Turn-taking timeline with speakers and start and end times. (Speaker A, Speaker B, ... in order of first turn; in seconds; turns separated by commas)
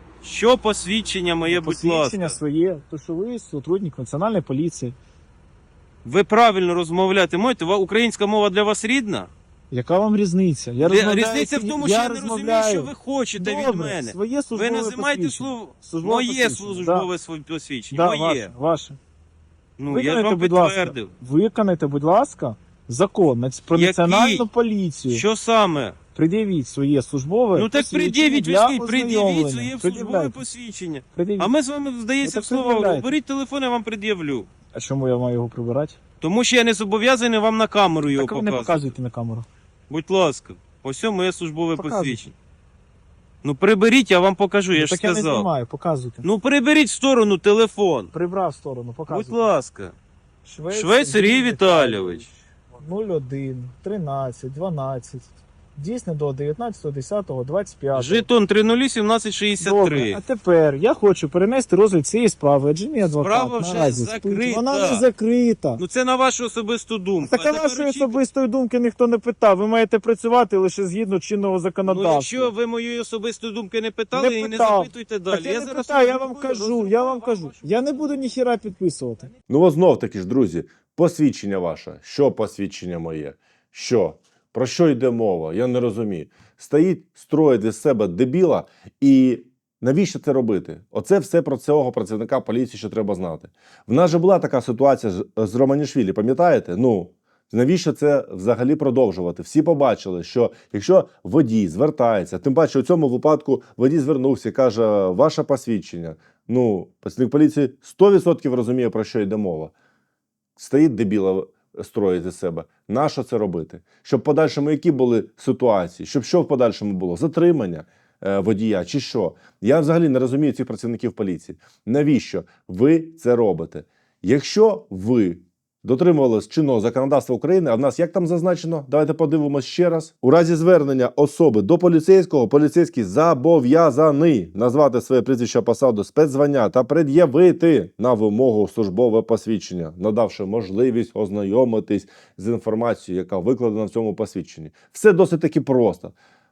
Speaker A: 0.2-2.4, Speaker B: 1.5-5.0, Speaker A: 6.0-9.3, Speaker B: 9.7-17.1, Speaker A: 10.8-18.5, Speaker B: 17.9-19.0, Speaker A: 19.8-21.1, Speaker B: 19.9-25.2, Speaker A: 23.7-24.4, Speaker A: 25.1-26.0, Speaker B: 26.1-30.4, Speaker A: 27.5-34.5, Speaker B: 31.1-31.5, Speaker B: 32.2-33.1, Speaker B: 34.7-36.0, Speaker A: 36.2-38.9, Speaker B: 38.1-39.5, Speaker A: 39.9-42.3, Speaker B: 41.8-42.2, Speaker A: 43.4-45.5, Speaker B: 44.8-46.2, Speaker A: 46.2-48.1, Speaker B: 48.1-49.5, Speaker A: 49.1-49.9, Speaker B: 50.5-58.3, Speaker A: 50.7-52.3, Speaker A: 57.9-60.2, Speaker B: 59.6-65.8, Speaker A: 63.1-65.0, Speaker A: 65.8-68.2, Speaker B: 67.2-72.5, Speaker A: 71.8-78.0, Speaker B: 74.1-79.3, Speaker C: 79.5-109.7, Speaker C: 110.6-146.1